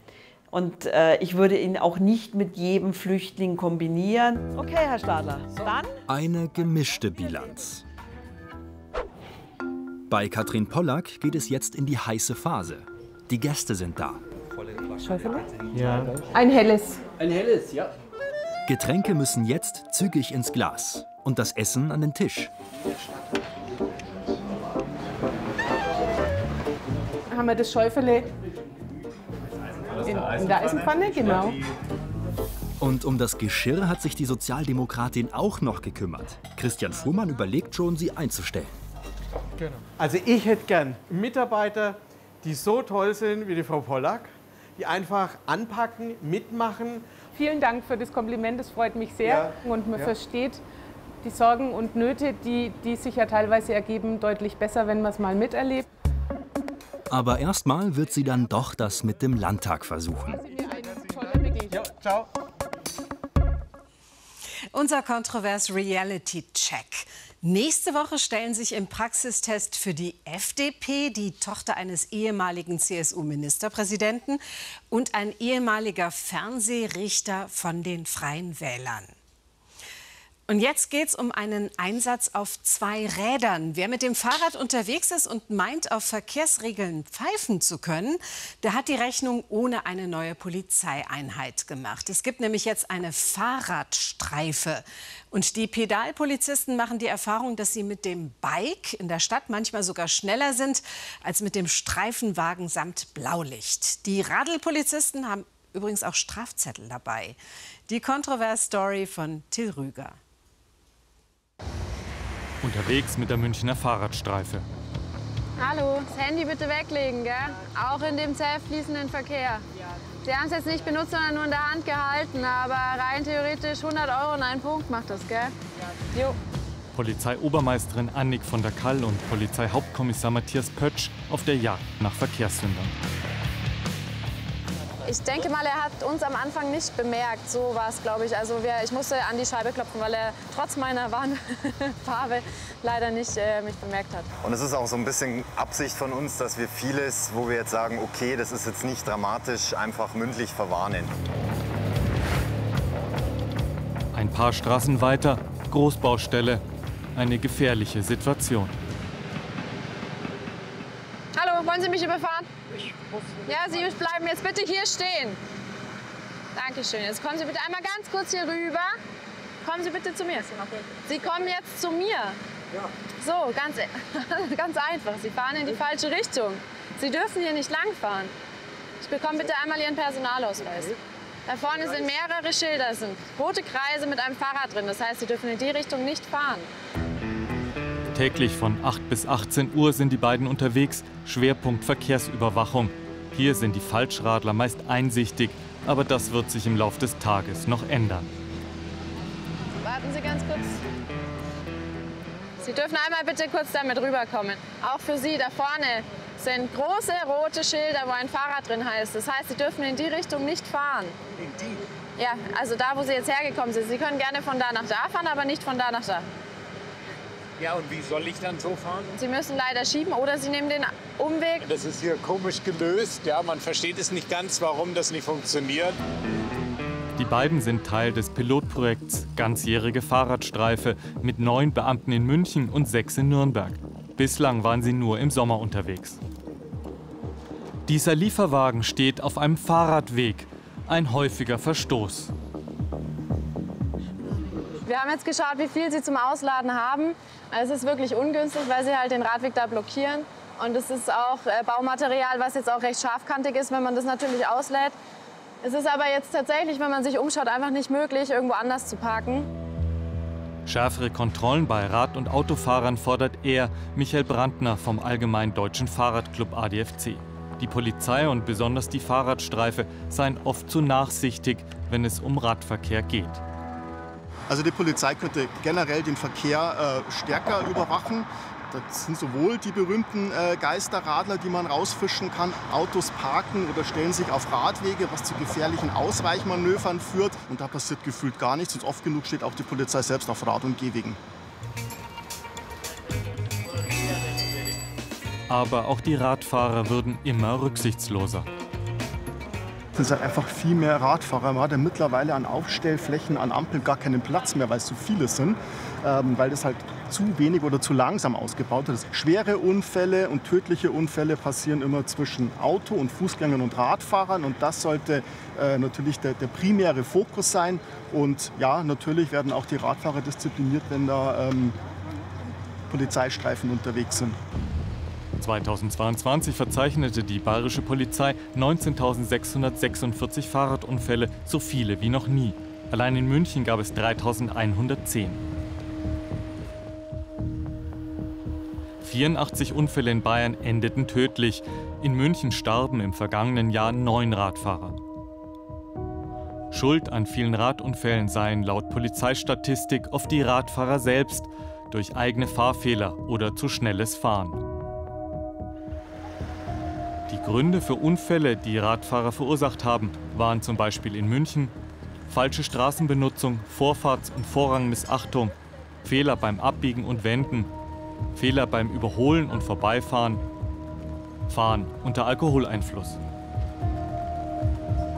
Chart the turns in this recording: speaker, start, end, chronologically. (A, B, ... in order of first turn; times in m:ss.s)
0:00.5-0:06.0 A
0:06.1-0:07.8 B
0:10.1-0:14.2 B
0:14.8-0:16.2 C
0:15.0-0:15.4 D
0:15.8-0:16.1 E
0:16.3-0:17.0 D
0:17.2-0:17.9 C
0:18.7-0:22.5 B
0:27.3-0:28.3 D
0:30.0-0:31.6 D
0:31.2-0:31.5 F
0:32.8-0:38.7 B
0:40.0-0:47.2 E
0:47.3-0:50.6 D
0:49.2-0:50.1 E
0:51.2-0:55.9 D
0:57.1-1:00.4 B
1:00.3-1:01.9 D
1:04.7-1:19.1 G
1:20.5-1:47.4 G
1:47.9-1:50.2 G
1:52.6-1:54.6 H
1:55.6-1:59.6 I
2:00.2-2:05.5 I
2:06.1-2:06.4 I
2:06.9-2:12.9 H
2:15.0-2:24.3 I
2:24.4-2:31.1 J
2:34.1-2:36.6 H
2:37.1-2:38.7 H
2:41.4-2:42.5 I
2:43.4-2:45.4 I
2:46.5-2:48.9 I
2:49.6-2:52.4 I
2:53.2-2:58.3 I
2:59.0-3:06.7 I
3:08.1-3:18.3 H
3:19.8-3:20.7 I
3:22.6-3:31.2 I
3:31.4-3:31.8 F
3:32.2-3:36.3 I
3:37.6-3:39.1 F
3:39.2-3:41.6 I
3:41.6-3:46.0 F
3:47.2-3:56.2 H
3:57.8-4:02.3 H
4:04.8-4:14.9 I
4:15.6-4:19.5 I
4:20.6-4:33.4 H
4:34.5-4:51.2 K
4:55.5-4:58.5 H
5:00.0-5:21.8 K
5:22.9-5:24.4 K
5:25.4-5:35.4 H
5:39.0-5:45.0 H
5:46.7-5:54.6 H
5:57.3-6:01.7 H
6:02.3-6:07.7 H
6:08.3-6:10.4 H
6:11.5-6:13.2 H